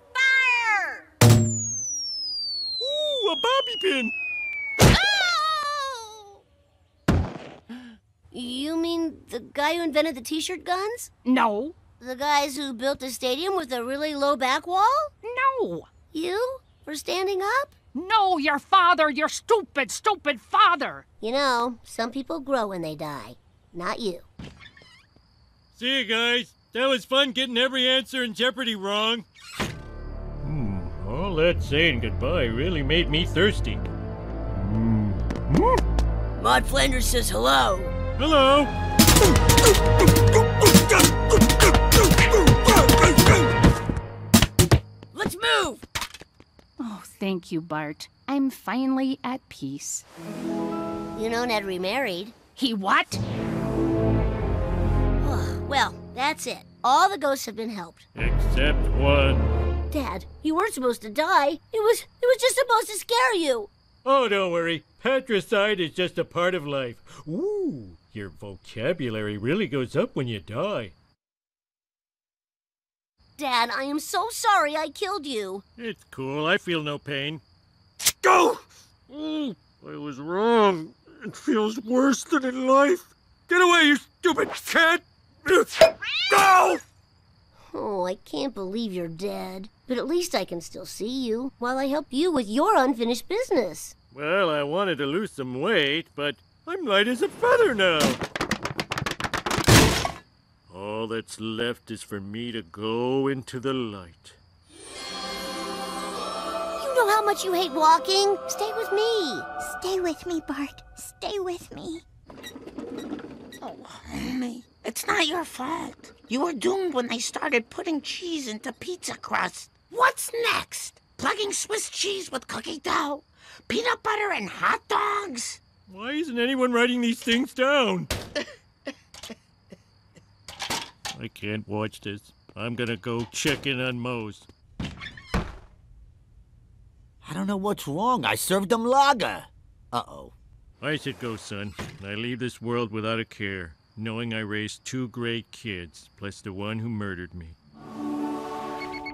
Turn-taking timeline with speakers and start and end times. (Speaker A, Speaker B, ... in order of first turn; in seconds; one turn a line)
Speaker A: 0.1-1.1
Speaker B: 2.8-4.1
Speaker A: 4.9-6.3
Speaker A: 8.3-11.1
Speaker C: 11.2-11.8
Speaker A: 12.0-15.1
Speaker C: 15.2-15.9
Speaker A: 16.1-17.7
Speaker C: 17.9-21.1
Speaker A: 21.2-24.3
Speaker B: 25.7-29.3
Speaker B: 30.4-33.8
Speaker B: 34.5-35.8
Speaker A: 36.4-38.0
Speaker B: 38.2-38.7
Speaker B: 42.9-43.1
Speaker A: 45.1-45.8
Speaker C: 46.8-50.1
Speaker A: 51.1-52.4
Speaker C: 52.6-53.2
Speaker A: 55.2-58.0
Speaker B: 58.1-59.5
Speaker A: 59.9-63.7
Speaker B: 64.0-70.9
Speaker A: 73.4-75.6
Speaker B: 75.8-77.4
Speaker B: 78.2-86.8
Speaker A: 87.7-93.9
Speaker B: 94.1-98.2
Speaker B: 100.7-104.4
Speaker A: 106.8-109.5
Speaker D: 109.6-112.0
Speaker E: 113.6-125.6
Speaker B: 125.9-128.1
Speaker B: 131.1-134.5
Speaker F: 137.2-140.3
Speaker B: 140.8-147.6